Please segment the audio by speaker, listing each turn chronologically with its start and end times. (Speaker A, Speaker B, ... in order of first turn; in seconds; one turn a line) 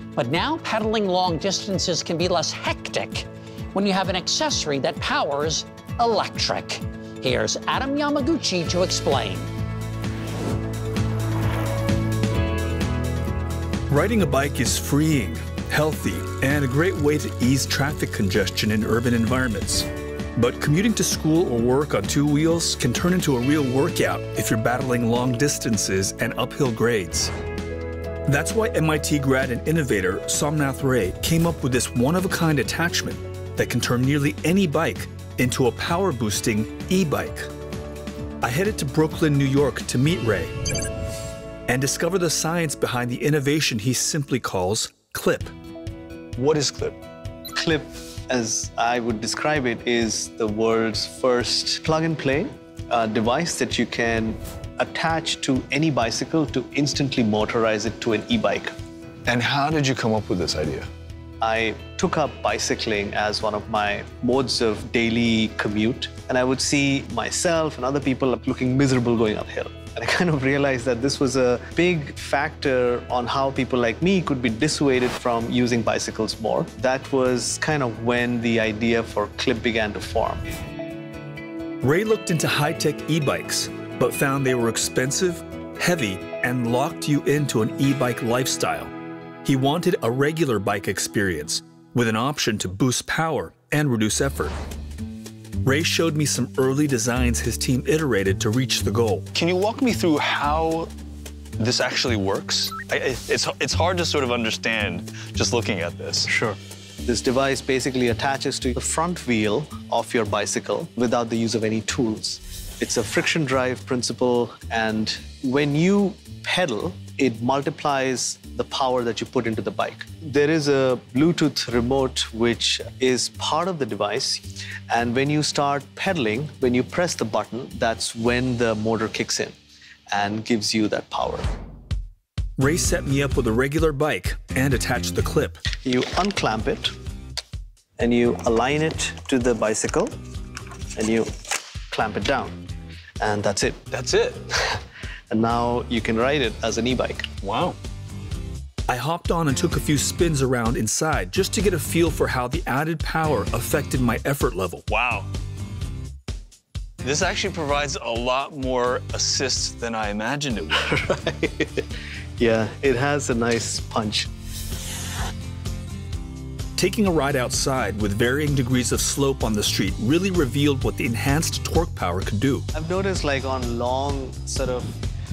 Speaker A: 0.2-9.5
Speaker B: 13.9-27.3
Speaker B: 28.3-37.5
Speaker B: 38.4-40.5
Speaker B: 41.7-45.5
Speaker B: 46.4-46.6
Speaker C: 46.4-46.9
Speaker D: 47.6-58.7
Speaker C: 59.3-60.9
Speaker D: 61.4-80.4
Speaker B: 81.8-88.9
Speaker B: 89.5-94.5
Speaker B: 95.6-99.4
Speaker C: 99.3-100.9
Speaker C: 101.6-106.3
Speaker D: 106.3-129.5
Speaker D: 130.1-131.4
Speaker B: 132.6-135.6
Speaker D: 135.8-136.9
Speaker D: 138.0-140.1
Speaker D: 141.0-141.3
Speaker D: 141.9-142.6
Speaker D: 143.2-143.9
Speaker C: 143.9-144.4
Speaker D: 144.5-147.3
Speaker C: 147.4-147.8
Speaker B: 148.9-154.9
Speaker C: 154.9-155.3
Speaker C: 157.0-160.9
Speaker D: 160.7-161.9
Speaker D: 162.4-164.3
Speaker B: 166.8-172.7
Speaker D: 172.7-175.0